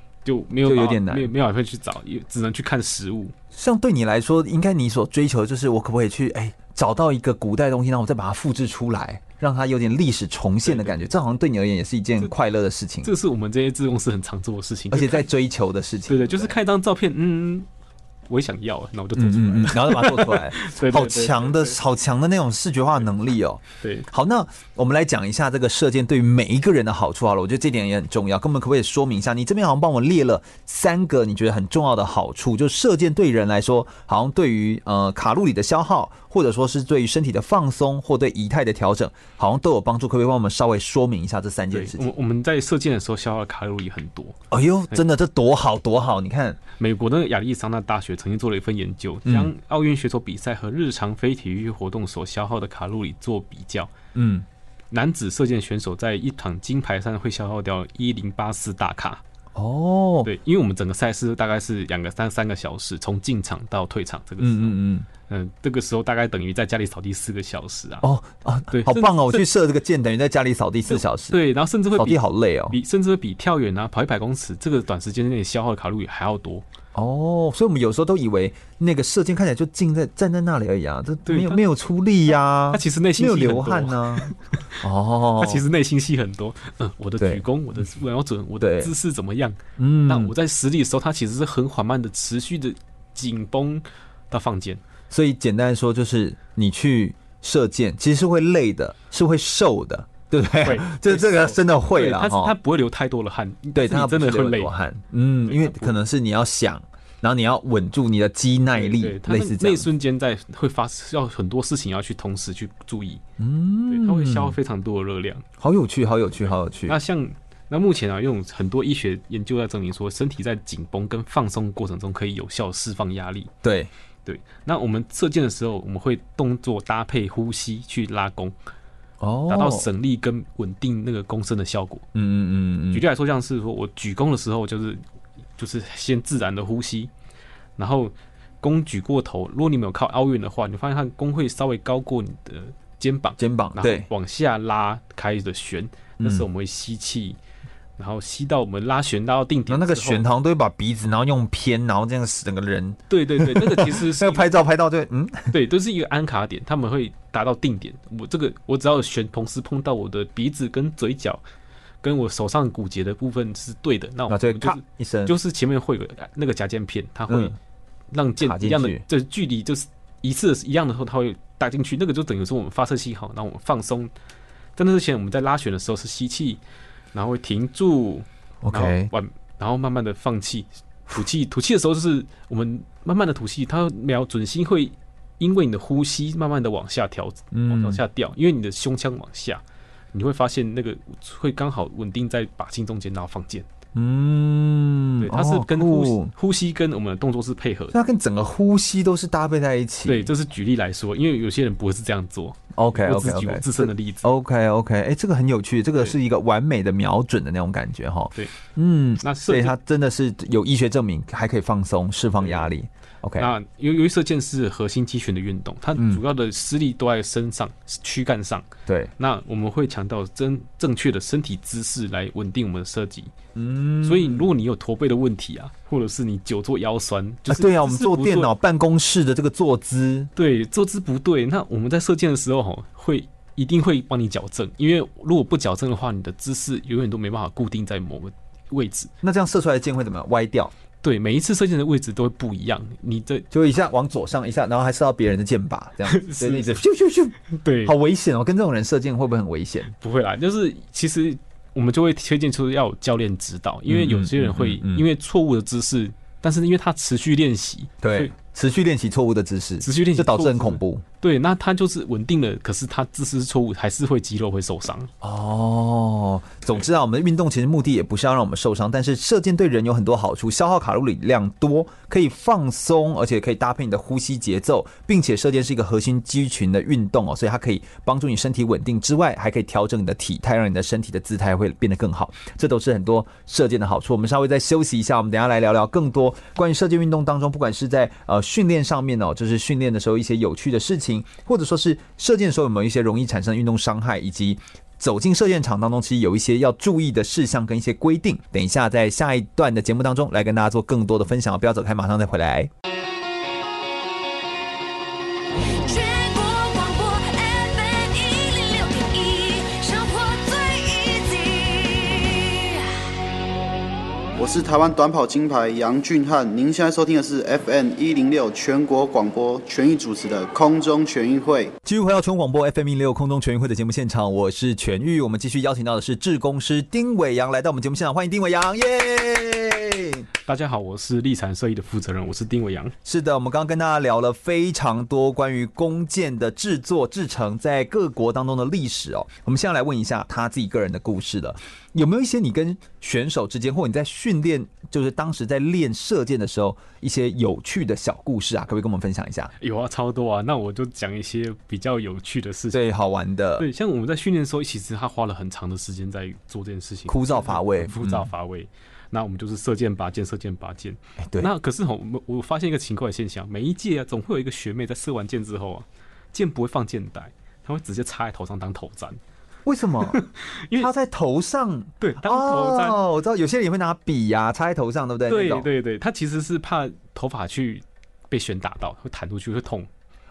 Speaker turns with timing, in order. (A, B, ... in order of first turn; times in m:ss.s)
0:00.2-0:03.4 A
0:00.6-0:01.3 B
0:03.5-0:13.1 B
0:10.6-0:11.0 A
0:13.0-0:15.3 A
0:14.9-0:16.5 B
0:16.1-0:17.7 A
0:18.3-0:21.8 A
0:19.2-0:42.0 B
0:23.8-0:24.1 A
0:41.7-0:44.4 A
0:44.5-0:46.6 B
0:46.8-0:53.9 A
0:49.3-0:49.5 B
0:54.2-0:54.5 B
0:54.9-0:59.2 A
0:59.6-1:00.3 B
1:00.2-1:04.8 A
1:04.4-1:05.1 B
1:05.3-1:08.1 A
1:08.0-1:11.4 B
1:08.7-1:09.5 A
1:10.9-1:16.6 A
1:12.0-1:12.8 B
1:16.9-1:25.6 B
1:21.3-1:21.6 A
1:22.7-1:24.4 A
1:25.4-1:34.8 A
1:27.2-1:27.4 B
1:28.6-1:28.9 B
1:29.8-1:30.3 B
1:35.1-1:42.6 B
1:40.6-1:44.7 A
1:43.7-1:49.9 B
1:45.5-1:46.0 A
1:48.7-1:53.2 A
1:53.4-1:54.6 B
1:53.9-1:55.4 A
1:55.6-1:57.0 B
1:56.9-2:03.5 A
2:03.6-2:03.9 B
2:04.3-2:08.6 A
2:09.2-2:09.9 B
2:09.5-2:12.0 A
2:12.1-2:13.0 B
2:12.9-2:15.0 A
2:15.6-2:17.1 A
2:17.8-2:27.4 A
2:23.4-2:24.1 B
2:26.2-2:26.5 B
2:28.0-2:30.2 A
2:29.7-2:35.5 B
2:33.1-2:34.6 A
2:35.5-2:41.4 A
2:42.0-2:47.6 A
2:44.3-2:45.4 B
2:47.3-2:47.6 B
2:48.1-2:54.1 A
2:48.4-2:49.0 B
2:54.8-2:56.6 A
2:57.1-3:09.6 A
2:58.6-2:59.1 B
3:07.5-3:08.0 B
3:10.1-3:13.7 A
3:14.0-3:16.3 B
3:15.2-3:18.0 A
3:17.9-3:20.3 B
3:20.1-3:24.3 A
3:22.7-3:33.5 B
3:29.2-3:29.8 A
3:32.4-3:32.7 A
3:33.4-3:43.3 A
3:36.0-3:36.2 B
3:38.9-3:39.1 B
3:43.6-3:44.5 B
3:44.0-3:48.5 A
3:47.5-3:50.3 B
3:50.4-3:59.1 A
3:59.2-4:00.7 B
4:01.0-4:03.5 A
4:03.5-4:09.9 B
4:06.1-4:06.8 A
4:07.5-4:08.0 A
4:10.0-4:18.3 A
4:13.9-4:15.1 B
4:18.0-4:21.0 B
4:19.8-4:25.1 A
4:25.2-5:02.7 B
5:05.8-5:12.9 C
5:14.4-5:21.8 D
5:21.8-5:30.3 B
5:30.4-5:33.0 A
5:33.0-5:49.5 B
5:49.6-5:52.8 A
5:52.7-5:53.7 B
5:53.6-6:09.2 A
5:57.1-5:58.3 B
6:01.2-6:01.5 B
6:09.6-6:10.2 B
6:10.1-6:10.9 A
6:10.8-6:15.7 B
6:12.0-6:13.0 A
6:15.3-6:19.9 A